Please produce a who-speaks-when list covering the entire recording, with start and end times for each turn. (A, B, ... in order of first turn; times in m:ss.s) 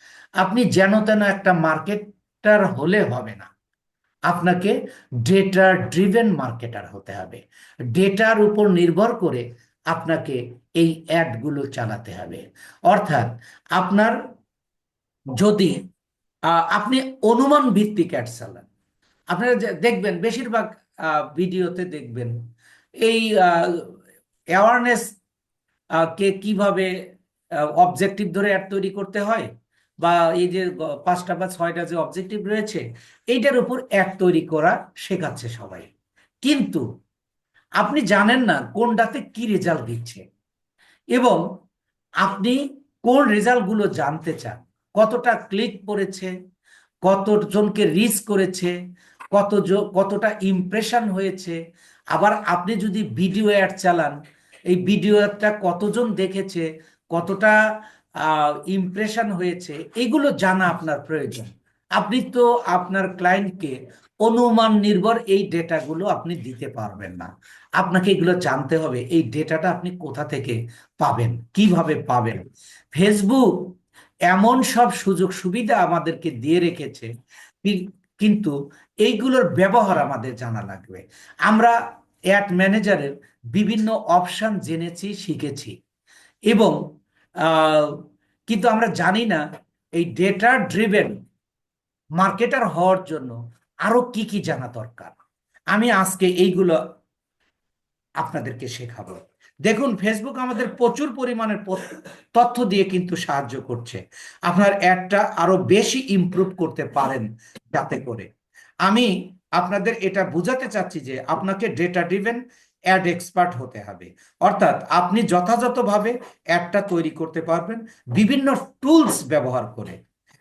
0:00.4-0:03.5 A
0:04.3-0:07.4 A
0:07.9-0:14.2 A
0:15.4-0:15.8 A
0:16.5-0:18.7 A
0:19.3-0:22.4 A
0:23.0-0:23.9 A
0:24.6-0:25.1 A
0:26.0-0:26.9 A
0:27.8-0:29.5 A
0:30.0-0:35.9 A
0:36.4-0:36.8 A
0:37.8-0:40.2 A
0:41.2-0:41.4 A
0:42.2-0:46.3 A
0:47.0-0:48.8 A
0:49.3-0:51.6 A
0:52.1-0:54.2 A
0:54.7-0:57.6 A
0:58.2-1:12.4 A
1:12.9-1:13.7 A
1:14.3-1:17.1 A
1:17.6-1:21.8 A
1:22.3-1:25.7 A
1:26.5-1:26.8 A
1:27.4-1:29.4 A
1:30.0-1:31.2 A
1:32.2-1:35.2 A
1:35.7-1:36.8 A
1:38.2-1:48.3 A
1:48.9-2:00.0 A